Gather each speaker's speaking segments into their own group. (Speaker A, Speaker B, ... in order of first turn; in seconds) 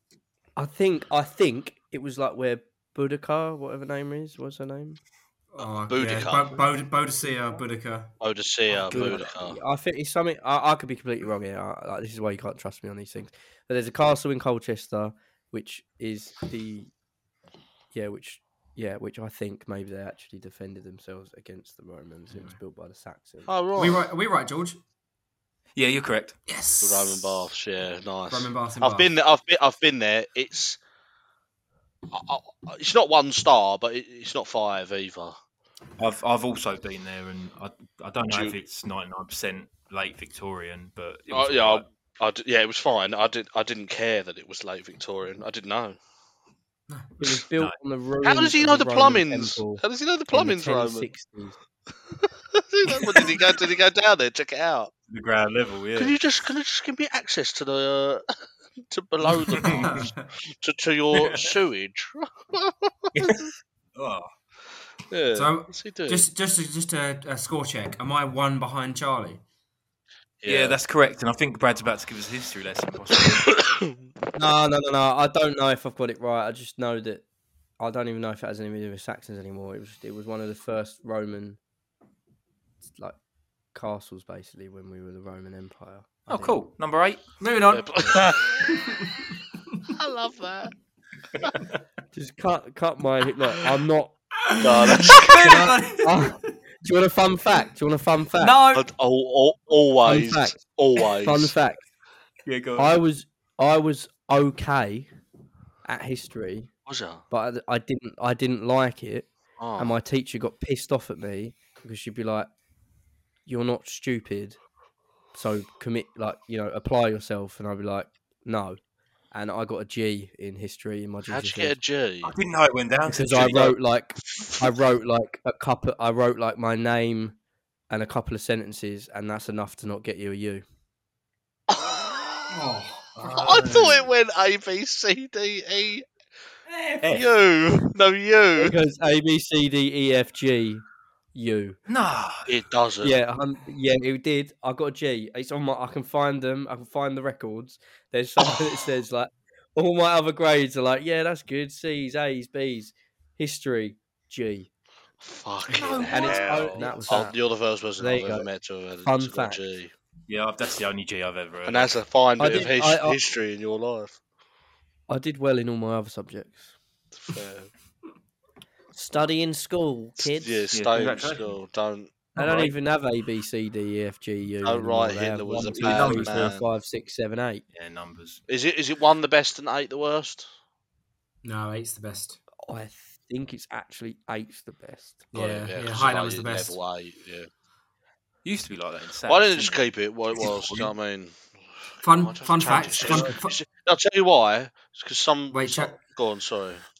Speaker A: 0.6-5.0, 8.9-16.9, 17.9-23.5, 47.2-51.6, 74.3-77.2, 77.8-81.6, 82.9-83.2, 83.7-86.6, 92.1-94.2, 95.4-98.6, 100.0-100.6, 101.2-101.8, 102.8-105.1, 105.8-106.7, 107.3-112.5, 113.5-114.6, 115.3-118.8, 119.3-121.8, 123.1-127.3, 127.9-130.6, 138.6-141.8, 143.0-154.7, 156.1-157.4, 158.0-158.5, 159.0-159.6, 162.4-163.2, 165.1-166.7, 168.9-170.6, 172.3-177.6, 182.7-185.3
Speaker B: 5.5-8.1, 23.8-24.8, 26.5-27.4, 28.3-29.1, 59.5-60.2, 65.3-69.4, 87.4-89.2, 94.5-96.3, 98.4-98.8, 132.5-133.8, 136.7-137.2, 181.4-182.4, 185.3-186.8, 192.0-193.6, 195.5-195.9
Speaker C: 5.8-6.6, 8.2-9.6, 23.5-24.1, 26.8-30.8, 32.1-35.4, 38.3-38.6, 41.3-46.0, 48.2-51.1, 52.5-54.9, 56.0-58.3, 58.9-63.4, 65.1-66.3, 70.4-70.8, 73.2-73.9, 87.7-89.0, 89.9-90.7, 94.6-95.6, 98.7-101.5, 106.9-107.2, 109.6-110.0, 121.3-122.3, 131.7-132.6, 133.3-136.1, 137.0-138.7, 142.5-143.1, 155.2-159.9, 161.7-164.2, 167.2-167.7, 170.2-172.3, 174.6-176.6, 178.5-180.5, 185.3-187.5, 189.3-196.8
Speaker D: 8.8-9.1, 25.8-26.4, 36.0-41.9, 55.1-56.1, 59.5-60.1, 63.1-64.3, 70.5-73.5, 86.3-87.2, 102.4-103.0, 122.2-123.8, 133.2-134.1, 141.9-142.5, 155.7-157.2, 160.3-162.0, 170.7-171.6, 175.8-176.6, 177.7-178.4, 188.4-190.9, 193.0-193.3